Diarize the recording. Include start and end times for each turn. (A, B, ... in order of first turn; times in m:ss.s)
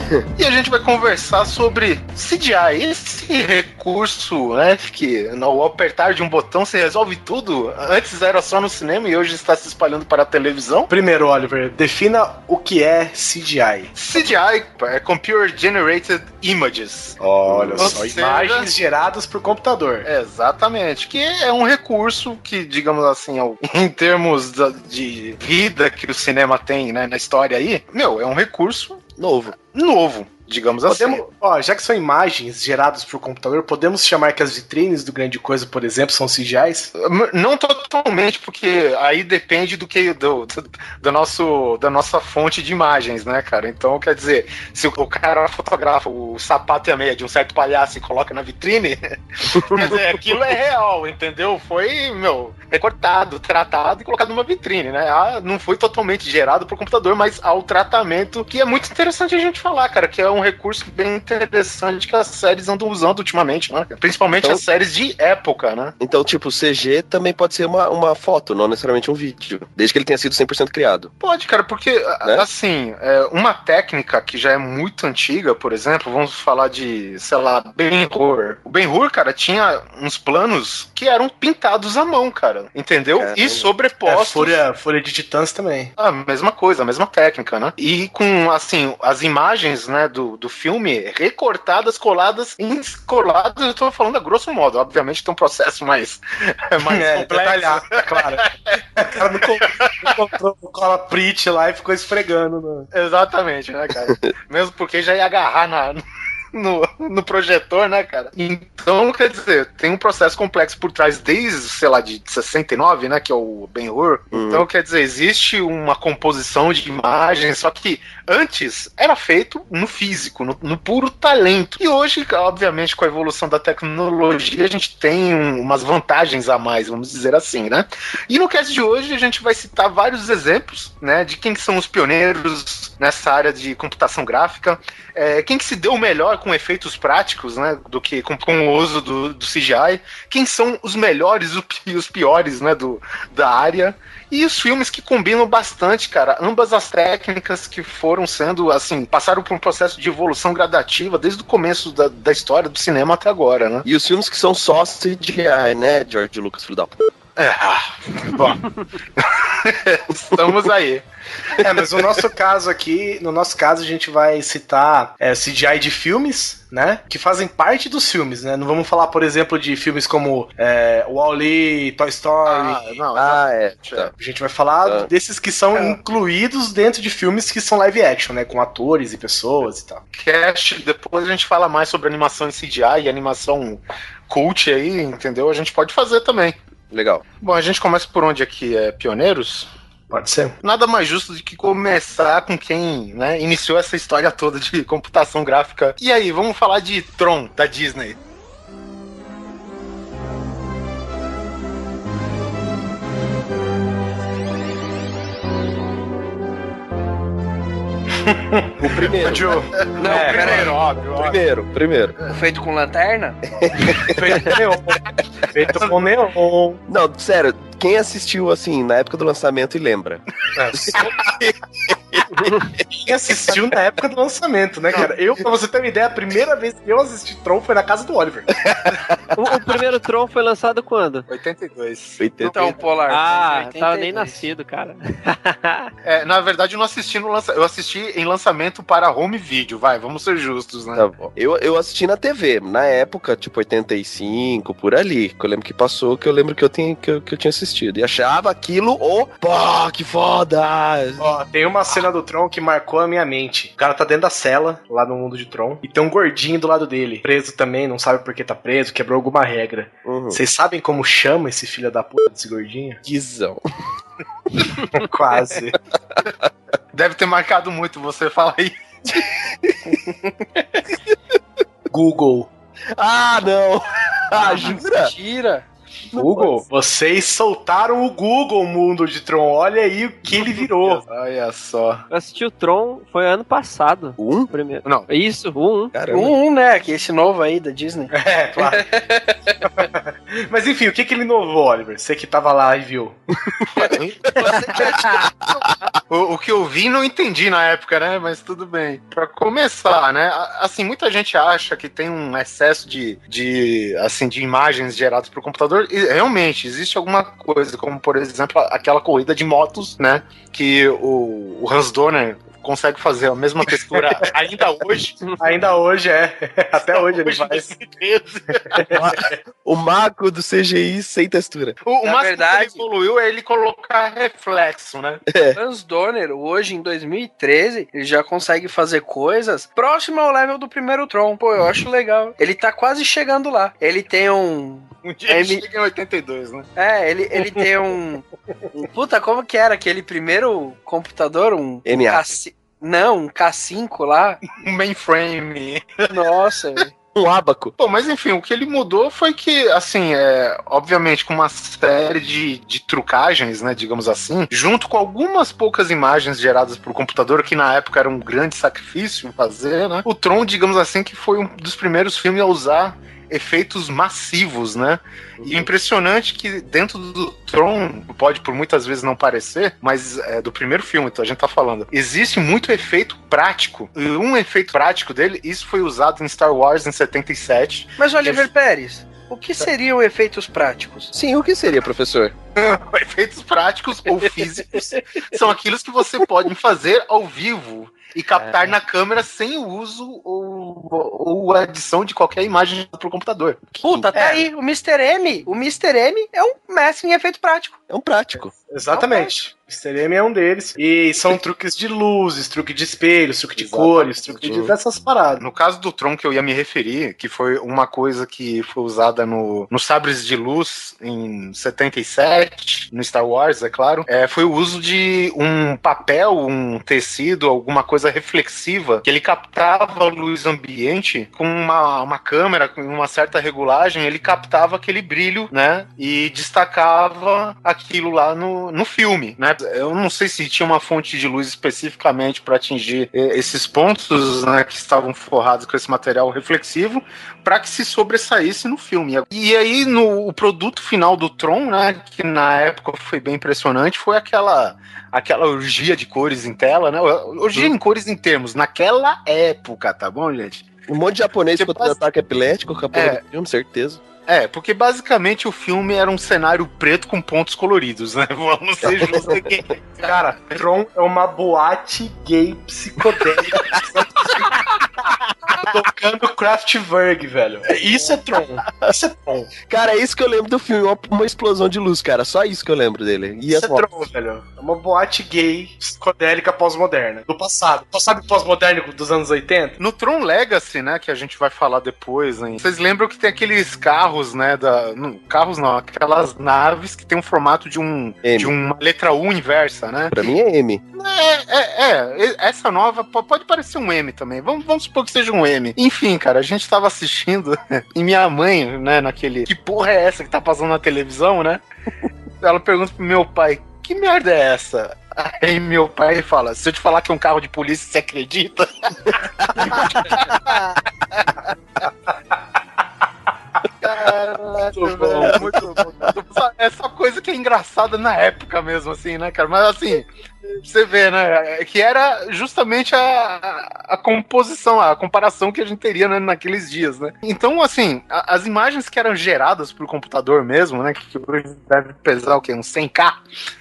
0:00.3-0:10.9 A
0:10.9-0:13.9 B
0:14.0-0:17.2 A
0:17.2-0:20.1 B
0:17.7-0:18.7 A
0:20.0-0:31.2 A
0:29.2-0:29.6 C
0:30.9-0:36.9 B
0:37.0-1:06.0 A
0:49.6-0:49.8 C
1:06.0-1:11.1 C
1:11.2-1:24.6 A
1:23.2-1:23.6 C
1:24.0-1:25.9 B
1:26.0-1:40.2 A
1:36.8-1:42.9 B
1:42.9-2:33.9 A
1:54.3-1:54.7 C
2:33.8-2:37.1 C
2:37.4-2:41.0 A
2:41.6-2:52.8 B
2:52.5-2:54.1 A
2:53.1-2:54.1 C
2:54.2-3:00.0 B
3:00.1-3:06.6 A
3:06.9-3:07.2 C
3:07.4-3:09.7 A
3:10.1-3:10.6 B
3:10.6-3:18.2 A
3:28.2-3:30.7 B
3:28.8-3:29.6 C
3:30.0-3:30.8 D
3:30.0-3:31.4 A
3:31.1-3:32.2 C
3:32.2-3:33.4 D
3:33.5-3:34.2 C
3:34.0-3:36.8 B
3:36.9-3:40.2 C
3:40.6-3:41.0 B
3:40.8-3:42.8 C
3:42.9-3:48.6 B
3:48.7-3:49.2 C
3:49.4-3:51.3 E
3:51.3-3:52.8 A
3:52.2-3:52.8 C
3:52.4-3:54.4 D
3:53.1-3:55.9 E
3:56.0-4:01.1 A
4:01.0-4:11.4 C
4:11.2-4:23.0 B
4:20.0-4:20.4 C
4:23.0-4:23.6 C
4:24.8-4:25.8 B
4:26.2-4:26.4 C
4:26.9-4:29.3 A
4:29.1-4:29.9 C
4:30.8-4:31.1 C
4:31.9-4:32.5 B
4:33.0-4:35.1 C
4:34.4-4:35.6 D
4:36.1-4:36.6 C
4:36.1-4:41.0 B
4:40.8-4:42.0 A
4:42.1-4:46.0 E
4:44.2-4:44.5 C
4:45.9-4:46.4 C
4:46.1-4:49.5 D
4:48.1-4:48.9 B
4:49.6-4:53.2 B
4:53.5-4:55.9 C
4:53.7-5:15.2 A
5:15.4-5:17.7 B
5:16.8-5:19.2 A
5:18.7-5:19.0 B
5:18.9-5:21.8 C
5:21.8-5:25.2 A
5:22.0-5:22.8 D
5:25.3-5:25.6 C
5:25.6-5:35.6 D
5:35.0-5:36.7 A
5:36.8-5:44.4 D
5:41.8-5:42.4 C
5:44.5-5:46.1 A
5:46.1-5:46.9 D
5:47.1-5:47.8 C
5:47.8-6:18.5 A
6:05.4-6:05.7 C
6:18.0-6:21.1 D
6:21.1-6:22.4 C
6:22.6-6:33.8 A
6:33.8-6:34.3 C
6:33.8-6:37.8 D
6:37.9-6:38.5 C
6:38.7-6:45.4 B
6:43.6-6:44.7 A
6:44.4-6:44.8 C
6:45.4-7:30.7 A
7:30.9-7:34.0 C
7:31.6-7:32.0 A
7:32.9-7:33.2 A
7:34.3-7:40.2 A
7:38.9-7:39.4 C
7:40.0-7:44.2 B
7:43.5-7:43.8 C
7:45.5-7:49.5 B
7:49.7-7:54.1 C
7:53.5-7:59.8 B
7:59.8-8:10.3 A
8:08.2-8:08.5 C
8:10.1-8:10.8 C
8:10.9-8:21.6 A
8:22.4-8:31.3 A
8:29.2-8:30.6 C
8:29.6-8:29.9 B
8:33.8-8:53.2 A
8:34.7-8:35.5 B
8:35.2-8:36.1 C